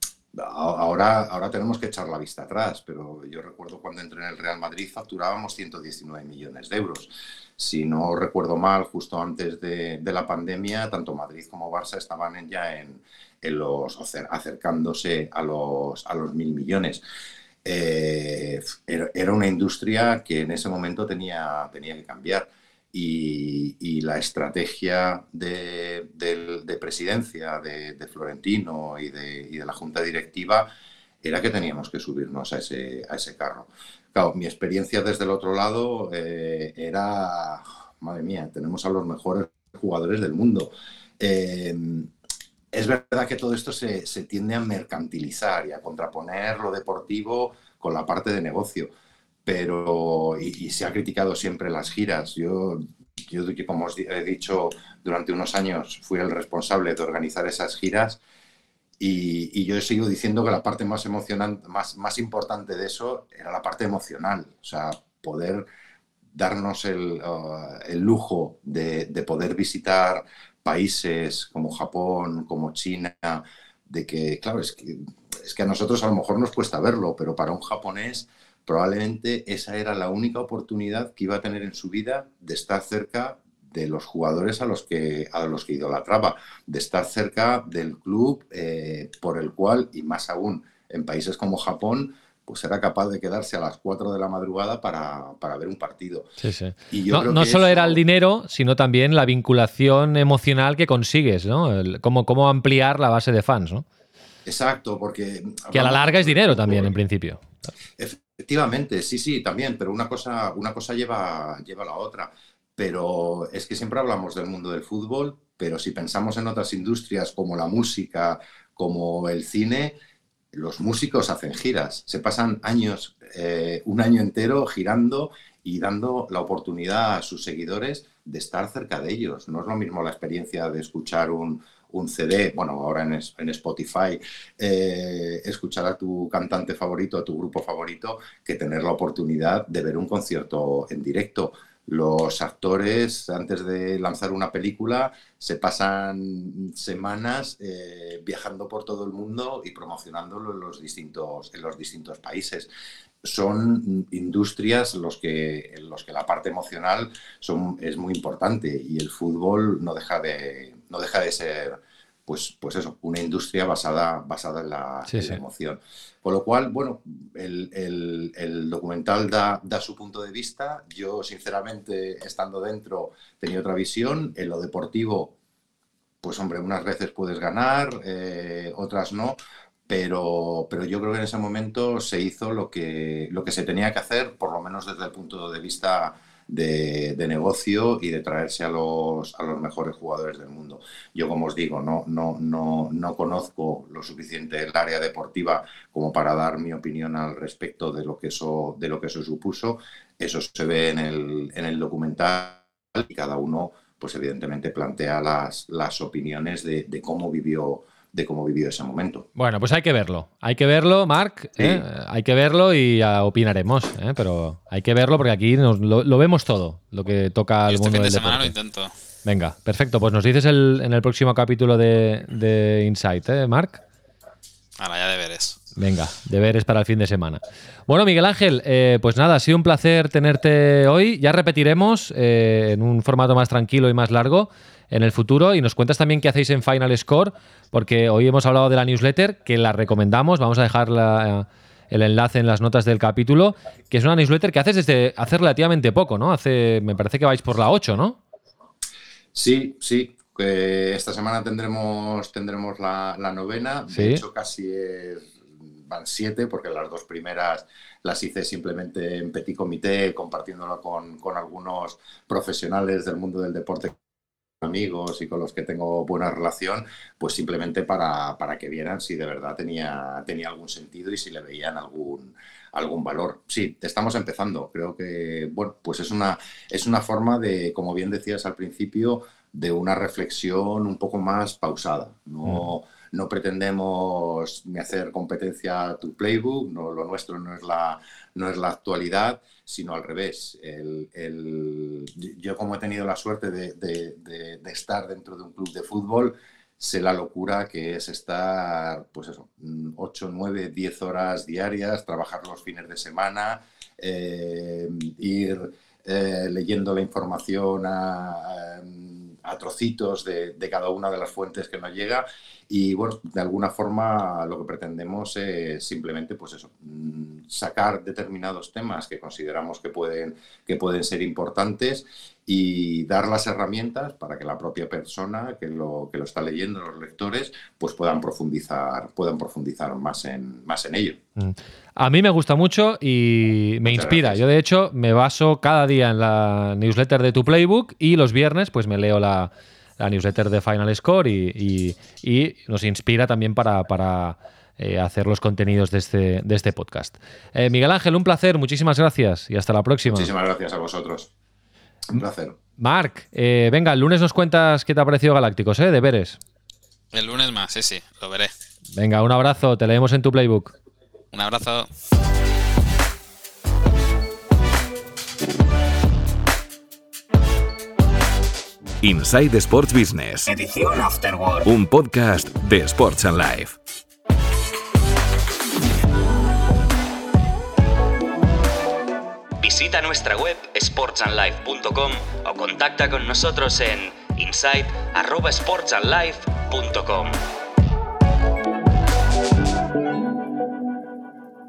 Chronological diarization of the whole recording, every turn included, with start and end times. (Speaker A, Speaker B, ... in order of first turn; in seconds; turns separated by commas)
Speaker A: 0.3-17.0, Speaker A: 17.6-30.7, Speaker A: 31.2-42.1, Speaker A: 42.7-48.9, Speaker A: 49.5-58.2, Speaker A: 59.0-65.7, Speaker A: 66.3-96.3, Speaker B: 96.4-103.8, Speaker A: 96.9-98.0, Speaker A: 104.5-107.0, Speaker B: 105.7-107.5, Speaker A: 108.0-120.0, Speaker A: 120.5-152.7, Speaker A: 153.2-175.3, Speaker B: 165.1-165.4, Speaker A: 176.2-209.3, Speaker B: 209.4-218.5, Speaker A: 211.6-211.8, Speaker C: 217.7-218.9, Speaker B: 219.2-223.8, Speaker C: 224.8-225.6, Speaker B: 225.8-248.2, Speaker A: 249.3-264.0, Speaker B: 253.9-254.2, Speaker A: 264.6-331.2, Speaker B: 331.4-350.3, Speaker A: 333.9-334.4, Speaker A: 350.1-351.3, Speaker A: 352.1-352.6, Speaker B: 352.8-356.4, Speaker C: 357.1-358.5, Speaker B: 359.0-360.8, Speaker C: 361.3-361.9, Speaker D: 369.0-370.5, Speaker E: 370.5-371.6, Speaker D: 371.7-373.8, Speaker E: 379.6-387.4